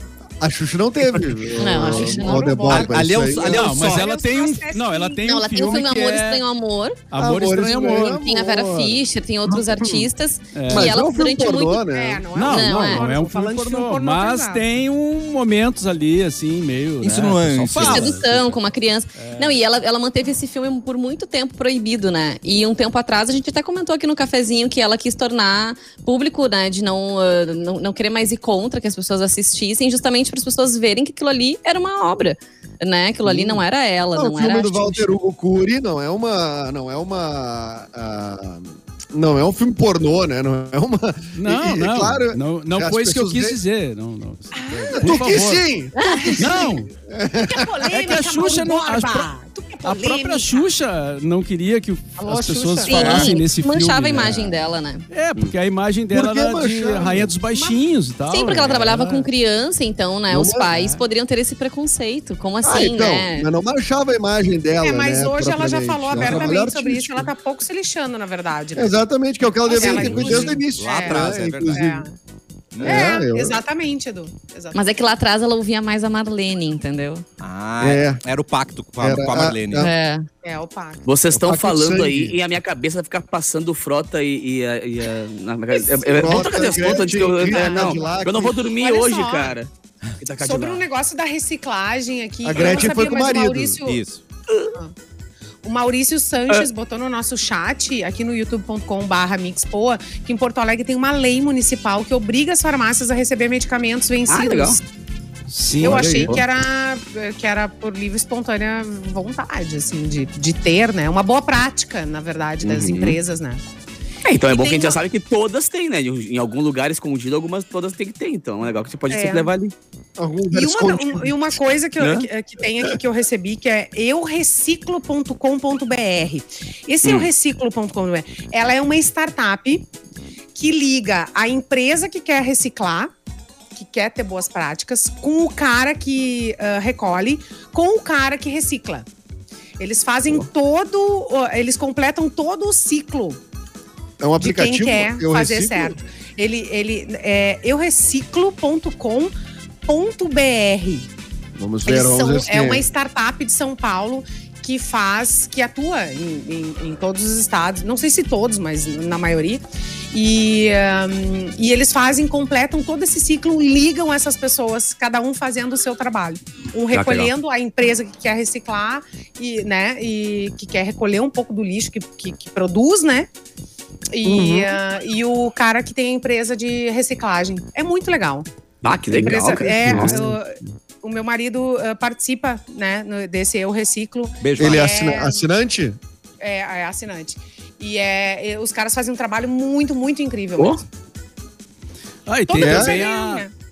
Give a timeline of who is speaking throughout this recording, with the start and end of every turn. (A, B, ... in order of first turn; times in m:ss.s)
0:00.4-0:03.7 A
0:01.5-0:02.7 B
0:01.8-0:05.2 C
0:02.7-0:04.1 D
0:03.4-0:06.4 E
0:05.3-0:07.0 B
0:07.1-0:08.2 E
0:07.2-0:10.1 A
0:08.0-0:11.8 B
0:10.5-0:11.0 E
0:10.7-0:12.3 A
0:11.9-0:14.6 C
0:12.3-0:19.6 E
0:12.5-0:13.0 B
0:17.0-0:18.2 D
0:17.8-0:35.1 B
0:33.2-0:33.6 A
0:34.1-0:43.6 A
0:41.4-0:45.7 E
0:44.5-0:45.3 C
0:44.9-0:47.7 A
0:46.0-0:46.3 B
0:46.0-0:46.7 C
0:46.4-0:46.9 E
0:47.4-0:50.7 C
0:47.9-0:49.3 E
0:49.8-0:54.4 E
0:52.2-0:53.3 C
0:52.8-0:55.1 B
0:54.2-0:54.6 A
0:55.1-0:59.3 E
0:56.1-0:57.3 A
0:57.5-0:57.8 C
0:58.3-1:03.5 B
1:00.3-1:00.8 A
1:00.7-1:01.0 E
1:02.6-1:07.3 A
1:04.8-1:09.0 C
1:06.2-1:06.4 D
1:08.8-1:12.0 A
1:09.6-1:12.2 C
1:09.8-1:11.9 D
1:12.7-1:13.2 D
1:12.8-1:13.6 A
1:12.8-1:14.8 C
1:14.7-1:17.2 B
1:17.4-1:19.9 D
1:17.8-1:18.2 A
1:19.0-1:19.9 A
1:19.8-1:20.3 B
1:20.4-1:21.1 C
1:21.0-1:30.8 F
1:21.3-1:22.4 A
1:25.7-1:29.6 C
1:26.1-1:28.6 A
1:30.4-1:34.0 C
1:32.4-1:33.8 A
1:33.9-1:34.2 D
1:34.5-1:34.8 F
1:35.6-1:44.8 C
1:44.3-1:44.8 F
1:45.5-1:46.4 E
1:45.8-1:53.6 C
1:45.8-1:46.4 F
1:52.6-1:53.2 F
1:54.2-1:59.7 F
1:54.5-1:55.0 C
1:59.1-1:59.5 C
2:00.2-2:01.6 A
2:00.5-2:09.9 C
2:02.0-2:02.3 F
2:07.0-2:07.3 F
2:10.6-2:13.1 C
2:13.8-2:19.1 C
2:19.8-2:23.4 C
2:24.2-2:26.0 A
2:24.4-2:29.3 C
2:29.9-2:31.1 C
2:31.6-2:32.8 A
2:31.9-2:53.3 C
2:46.9-2:47.3 F
2:54.1-2:58.5 C
2:54.3-2:54.7 F
2:58.8-3:00.2 F
2:59.1-3:05.4 C
3:04.4-3:04.9 D
3:04.6-3:06.0 A
3:06.4-3:10.8 C
3:12.3-3:13.5 E
3:12.5-3:13.5 C
3:12.6-3:13.0 A